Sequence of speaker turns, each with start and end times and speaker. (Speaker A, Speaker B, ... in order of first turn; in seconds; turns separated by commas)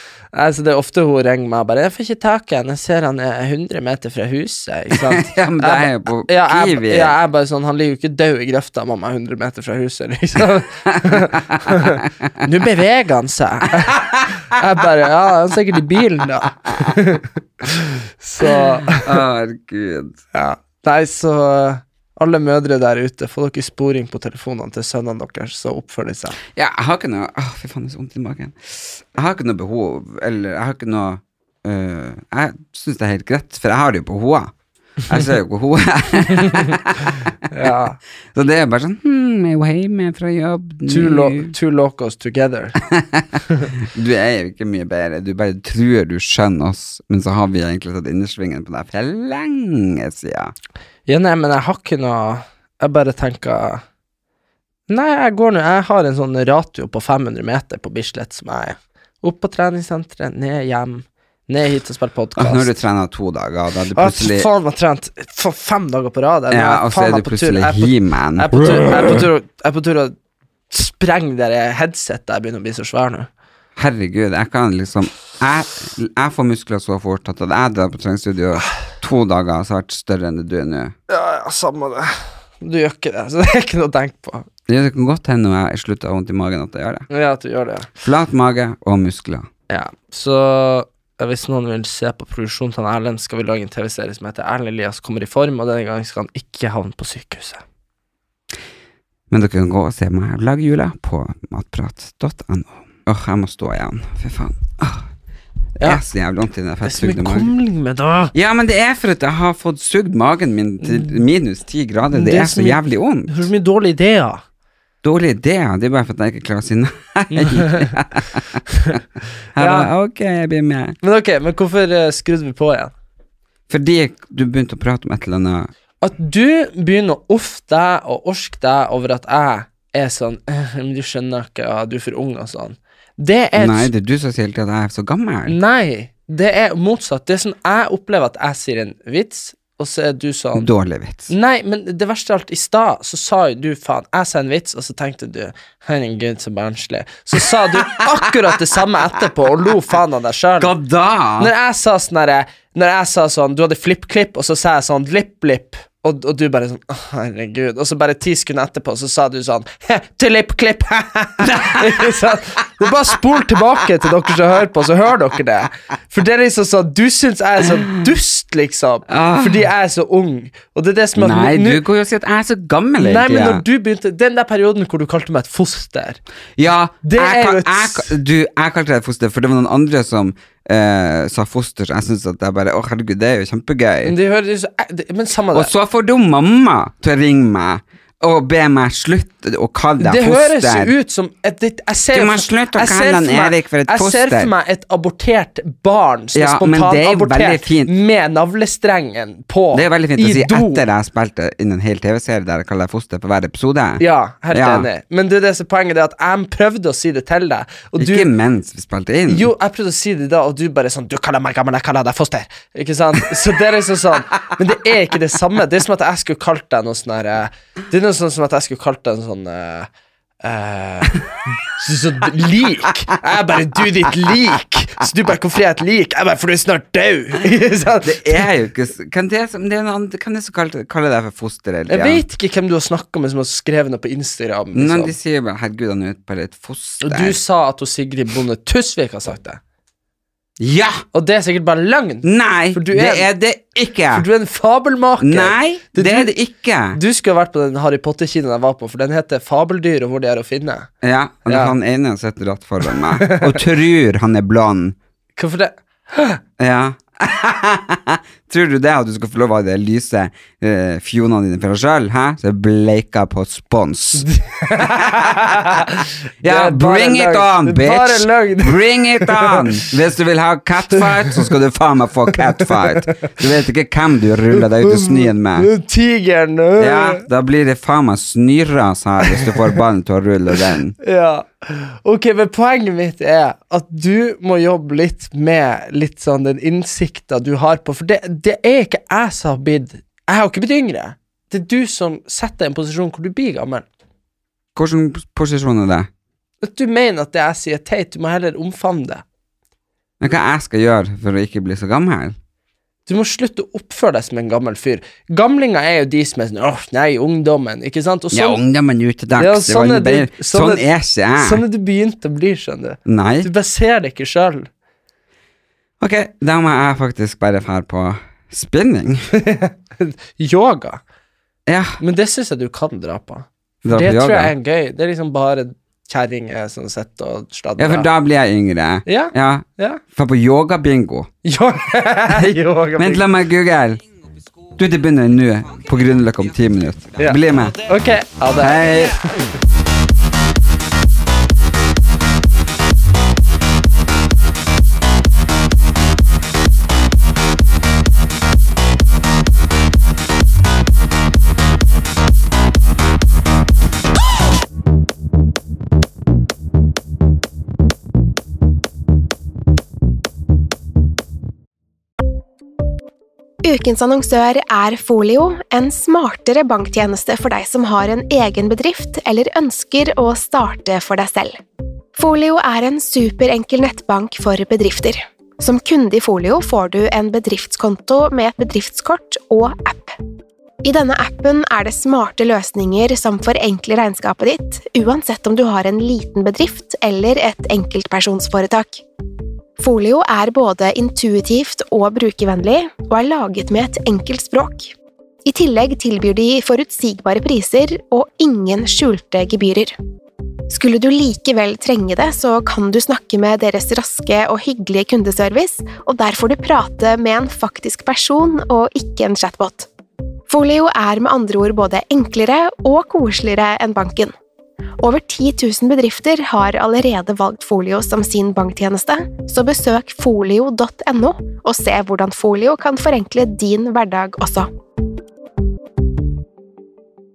Speaker A: 0.3-19.1, Speaker B: 4.9-7.1, Speaker B: 10.9-12.0, Speaker B: 13.9-14.3, Speaker B: 18.4-20.2, Speaker A: 20.3-26.4, Speaker B: 26.5-34.5, Speaker B: 35.1-37.2, Speaker A: 36.3-36.7, Speaker A: 37.5-38.0, Speaker B: 38.3-41.5, Speaker A: 40.9-42.8, Speaker B: 42.9-50.5, Speaker A: 51.1-53.8, Speaker A: 54.9-62.7, Speaker B: 62.4-64.5, Speaker A: 63.9-70.1, Speaker B: 66.5-69.2, Speaker A: 70.7-73.3, Speaker B: 73.8-80.9, Speaker A: 81.1-84.5, Speaker B: 84.7-87.1, Speaker A: 87.1-87.9, Speaker B: 88.0-89.5, Speaker A: 89.7-97.6, Speaker B: 99.3-105.1, Speaker B: 105.8-107.5, Speaker A: 106.8-108.3, Speaker B: 108.3-113.5, Speaker A: 110.8-111.1, Speaker A: 112.1-114.4, Speaker B: 115.0-119.0, Speaker A: 117.3-117.9, Speaker B: 119.5-121.0, Speaker A: 119.6-119.9, Speaker A: 121.0-122.9, Speaker B: 123.7-125.7, Speaker A: 126.0-133.9, Speaker B: 133.6-135.6, Speaker A: 135.4-140.7, Speaker B: 140.5-141.3, Speaker A: 141.3-150.7, Speaker B: 150.6-151.5, Speaker A: 151.4-171.8, Speaker B: 161.4-162.1, Speaker B: 169.1-169.7, Speaker B: 171.2-173.6, Speaker A: 173.0-176.2, Speaker B: 176.6-184.1, Speaker A: 177.0-178.1, Speaker A: 184.0-185.7, Speaker B: 185.5-190.9, Speaker A: 190.0-200.8, Speaker B: 192.1-194.5, Speaker B: 196.3-197.9, Speaker B: 199.7-204.9, Speaker A: 204.0-208.3, Speaker B: 208.0-209.5, Speaker A: 209.3-219.9, Speaker A: 220.4-228.4, Speaker B: 228.0-232.2, Speaker A: 231.9-235.1, Speaker B: 234.7-237.4, Speaker A: 237.0-239.6, Speaker B: 240.6-241.0, Speaker A: 241.1-243.3, Speaker B: 242.2-244.2, Speaker A: 244.1-246.3, Speaker B: 245.2-247.0, Speaker A: 246.9-250.9, Speaker B: 251.0-254.9, Speaker A: 251.4-251.8, Speaker A: 252.9-253.6, Speaker A: 255.4-256.4, Speaker B: 256.6-264.3, Speaker A: 264.1-269.8, Speaker B: 264.8-265.8, Speaker B: 266.4-275.7, Speaker A: 271.0-271.3, Speaker A: 272.6-273.3, Speaker A: 274.6-277.2, Speaker B: 276.8-280.9, Speaker A: 281.0-293.8, Speaker B: 294.7-296.1, Speaker A: 296.6-299.2, Speaker B: 300.2-302.4, Speaker A: 303.1-308.6, Speaker B: 308.3-311.6, Speaker A: 309.4-314.7, Speaker B: 313.1-313.5, Speaker B: 316.0-319.3, Speaker A: 319.3-321.0, Speaker B: 321.6-322.0, Speaker A: 322.0-328.1, Speaker B: 323.8-324.5, Speaker B: 327.8-331.3, Speaker A: 329.1-330.0, Speaker A: 331.4-333.3, Speaker B: 332.9-334.0, Speaker B: 334.7-337.8, Speaker A: 337.2-339.1, Speaker B: 338.6-339.2, Speaker C: 363.6-371.6, Speaker C: 372.1-380.1, Speaker C: 380.8-389.0, Speaker C: 389.8-394.9, Speaker C: 395.4-399.9, Speaker C: 400.7-409.9, Speaker C: 410.5-414.3, Speaker C: 415.0-424.7